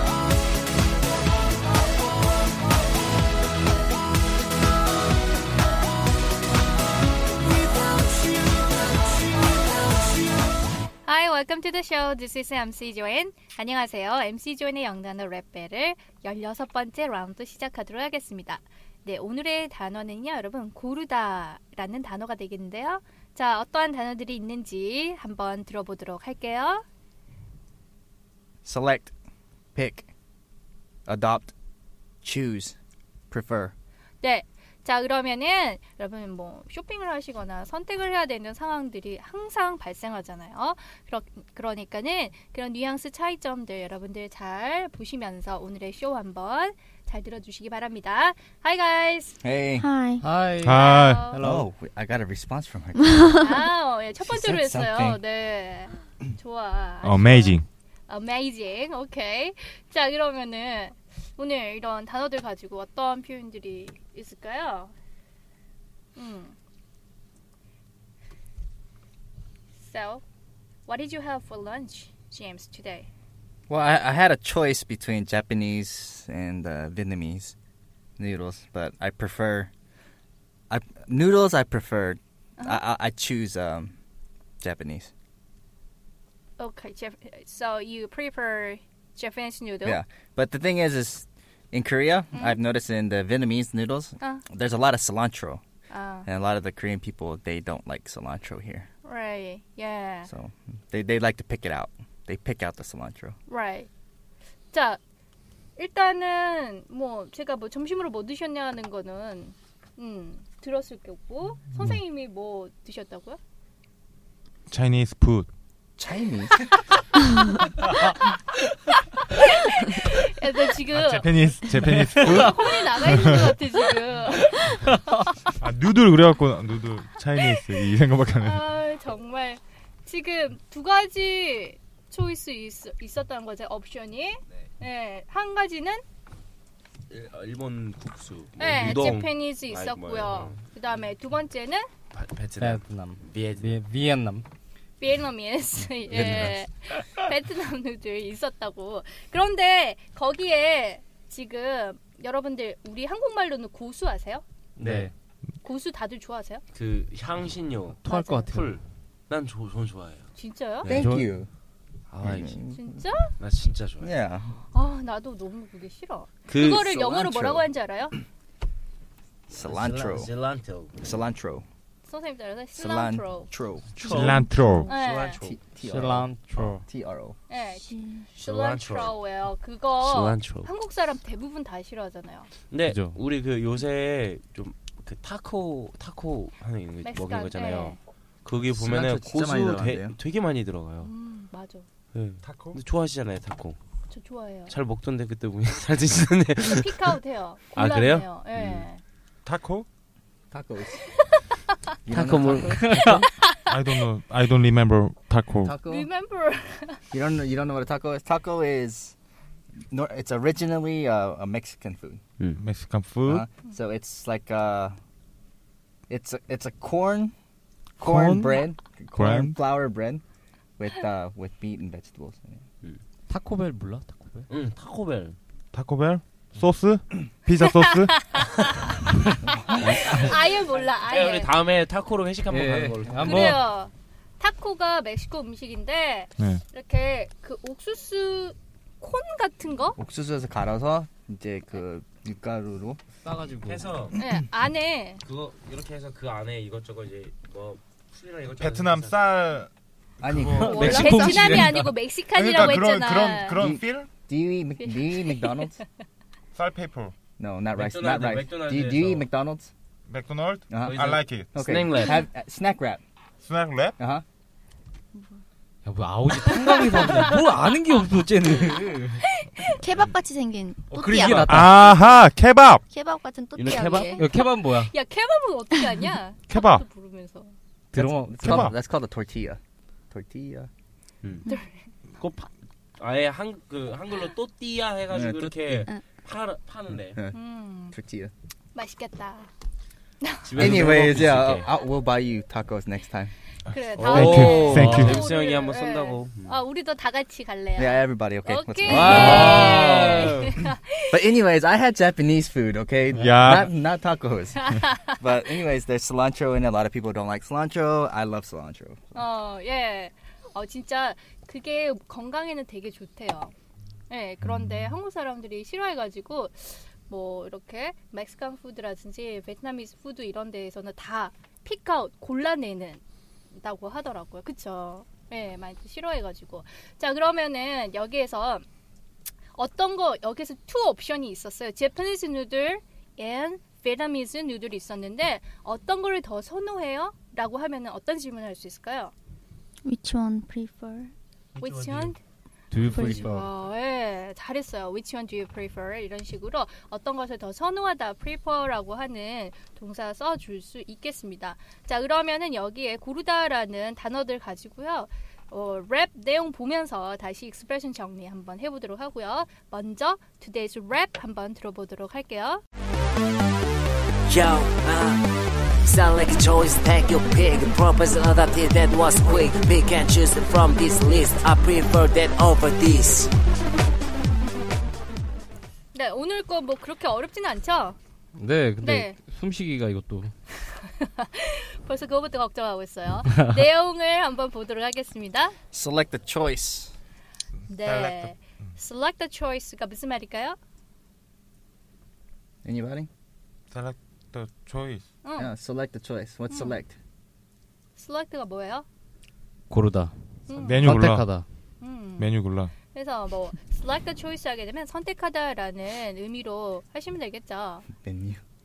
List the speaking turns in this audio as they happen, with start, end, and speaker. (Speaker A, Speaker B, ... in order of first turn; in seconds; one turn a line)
Speaker A: 11.0-26.8
Speaker B: 28.6-29.1
Speaker B: 29.7-30.1
Speaker B: 31.1-31.5
Speaker B: 32.2-32.8
Speaker B: 33.3-33.7
Speaker A: 34.2-49.4
Speaker B: 49.4-49.9
Speaker C: 49.8-50.2
Speaker D: 50.2-51.7
Speaker A: 50.6-51.4
Speaker E: 50.6-51.2
Speaker B: 51.4-53.4
Speaker A: 53.3-64.9
Speaker B: 54.2-55.2
Speaker E: 57.0-57.6
Speaker A: 66.2-66.6
Speaker A: 69.8-70.2
Speaker A: 70.9-73.1
Speaker B: 73.7-77.5
Speaker B: 78.2-79.7
Speaker B: 80.7-84.0
Speaker B: 84.6-85.1
Speaker A: 86.6-90.0
Speaker B: 89.8-95.6
Speaker A: 95.9-96.3
Speaker B: 96.2-98.9
Speaker A: 99.0-100.3
Speaker B: 100.3-103.4
Speaker A: 103.5-103.9
Speaker A: 104.7-105.0
Speaker A: 105.8-113.4
Speaker E: 111.7-112.0
Speaker E: 114.7-115.5
Speaker B: 116.0-116.6
Speaker A: 116.9-118.4
Speaker A: 119.2-121.5
Speaker E: 120.9-123.5
Speaker D: 121.8-122.2
Speaker A: 122.2-125.5
Speaker E: 125.6-128.7
Speaker A: 127.4-136.0
Speaker F: 137.1-140.6
Speaker A: 138.6-141.9
Speaker F: 142.1-143.8
Speaker D: 142.6-144.5
Speaker A: 145.0-154.4
Speaker F: 154.8-155.1
Speaker D: 154.8-155.1
Speaker A: 155.6-156.6
Speaker F: 156.7-160.3
Speaker D: 158.0-158.8
Speaker A: 158.1-158.5
Speaker A: 160.4-161.0
Speaker D: 160.9-161.3
Speaker B: 160.9-161.5
Speaker F: 162.1-162.6
Speaker B: 162.2-163.0
Speaker A: 162.7-163.3
Speaker F: 163.4-164.1
Speaker B: 164.0-164.6
Speaker A: 164.7-168.2
Speaker F: 166.5-166.8
Speaker B: 166.7-167.7
Speaker B: 169.5-170.3
Speaker F: 169.5-170.9
Speaker B: 171.0-171.7
Speaker A: 172.0-173.5
Speaker B: 172.7-173.9
Speaker F: 174.0-175.6
Speaker E: 174.0-174.9
Speaker A: 174.8-175.4
Speaker B: 175.3-177.4
Speaker D: 175.8-176.8
Speaker A: 177.5-182.5
Speaker C: 177.8-178.2
Speaker F: 178.3-179.2
Speaker F: 180.0-180.7
Speaker F: 182.7-191.1
Speaker D: 182.8-183.2
Speaker A: 187.0-188.0
Speaker B: 188.7-190.2
Speaker A: 191.0-191.9
Speaker F: 192.1-193.8
Speaker E: 192.4-192.8
Speaker A: 194.1-194.7
Speaker F: 194.7-197.2
Speaker A: 196.6-199.0
Speaker F: 197.7-198.9
Speaker E: 199.4-199.9
Speaker B: 200.5-201.1
Speaker A: 201.1-201.8
Speaker B: 202.1-203.0
Speaker F: 202.1-203.3
Speaker D: 202.8-203.2
Speaker A: 203.4-204.0
Speaker E: 203.7-205.8
Speaker B: 205.6-206.1
Speaker A: 205.9-207.0
Speaker B: 207.1-209.2
Speaker B: 209.9-212.2
Speaker E: 212.6-213.5
Speaker B: 213.2-215.0
Speaker B: 216.1-217.3
Speaker B: 218.0-220.2
Speaker D: 218.0-218.6
Speaker E: 219.2-219.6
Speaker B: 220.8-222.6
Speaker D: 223.3-224.5
Speaker F: 224.5-225.4
Speaker E: 225.7-228.2
Speaker A: 227.5-229.0
Speaker B: 229.4-230.1
Speaker A: 229.6-231.6
Speaker F: 229.8-233.6
Speaker D: 232.5-233.7
Speaker A: 233.1-240.0
Speaker B: 240.0-243.0
Speaker D: 243.2-244.0
Speaker F: 243.7-244.2
Speaker A: 244.1-245.2
Speaker F: 245.2-249.3
Speaker E: 248.5-249.7
Speaker B: 250.2-251.2
Speaker E: 250.2-250.8
Speaker D: 250.6-251.9
Speaker A: 250.7-253.6
Speaker E: 252.3-254.1
Speaker B: 253.6-255.8
Speaker A: 254.8-255.8
Speaker E: 256.5-257.1
Speaker B: 257.4-259.7
Speaker F: 257.8-259.3
Speaker E: 260.1-261.6
Speaker B: 260.7-263.0
Speaker F: 260.8-262.2
Speaker A: 261.9-262.3
Speaker E: 263.4-263.9
Speaker B: 264.0-264.2
Speaker D: 265.9-269.2
Speaker A: 266.6-267.2
Speaker A: 269.2-269.9
Speaker C: 269.8-271.4
Speaker D: 270.9-271.9
Speaker E: 271.3-272.8
Speaker C: 272.9-274.2
Speaker F: 273.6-274.2
Speaker D: 273.7-274.9
Speaker A: 274.1-277.6
Speaker E: 276.5-276.8
Speaker D: 277.9-278.7
Speaker B: 277.9-279.6
Speaker E: 278.4-278.8
Speaker B: 280.1-280.7
Speaker F: 281.2-281.5
Speaker A: 281.5-281.8
Speaker F: 282.2-287.2
Speaker B: 285.1-285.5
Speaker A: 287.3-287.9
Speaker B: 287.9-288.3
Speaker A: 288.7-289.5
Speaker A: 290.2-290.7
Speaker F: 290.4-291.7
Speaker B: 290.6-293.3
Speaker A: 293.7-301.2
Speaker F: 293.9-296.6
Speaker E: 294.1-295.3
Speaker B: 297.8-299.9
Speaker F: 298.9-300.5
Speaker D: 299.0-300.0
Speaker B: 301.1-309.2
Speaker E: 303.2-303.7
Speaker A: 304.6-305.2
Speaker A: 309.1-313.5
Speaker A: 314.1-323.0
Speaker A: 323.5-328.6
Speaker A: 329.6-339.1
Speaker C: 339.9-341.1
Speaker F: 341.6-342.2
Speaker A: 341.6-342.2
Speaker D: 342.7-343.5
Speaker A: 342.7-362.6
Speaker G: 366.2-367.4
Speaker G: 368.8-369.3
Speaker G: 370.2-371.5
Speaker G: 372.9-373.3
Speaker A: 375.9-378.0
Speaker D: 378.4-380.3
Speaker A: 378.8-379.2
Speaker A: 380.5-385.6
Speaker B: 385.7-386.9
Speaker A: 387.7-390.6
Speaker E: 387.8-388.3
Speaker B: 392.6-393.1
Speaker E: 393.7-395.1
Speaker A: 395.2-395.5
Speaker B: 395.4-396.9
Speaker A: 396.5-396.8
Speaker A: 397.9-398.9
Speaker D: 399.7-400.1
Speaker A: 400.5-400.9
Speaker E: 400.5-401.2
Speaker D: 400.8-401.4
Speaker A: 401.8-407.9
Speaker E: 402.2-402.7
Speaker B: 407.9-408.4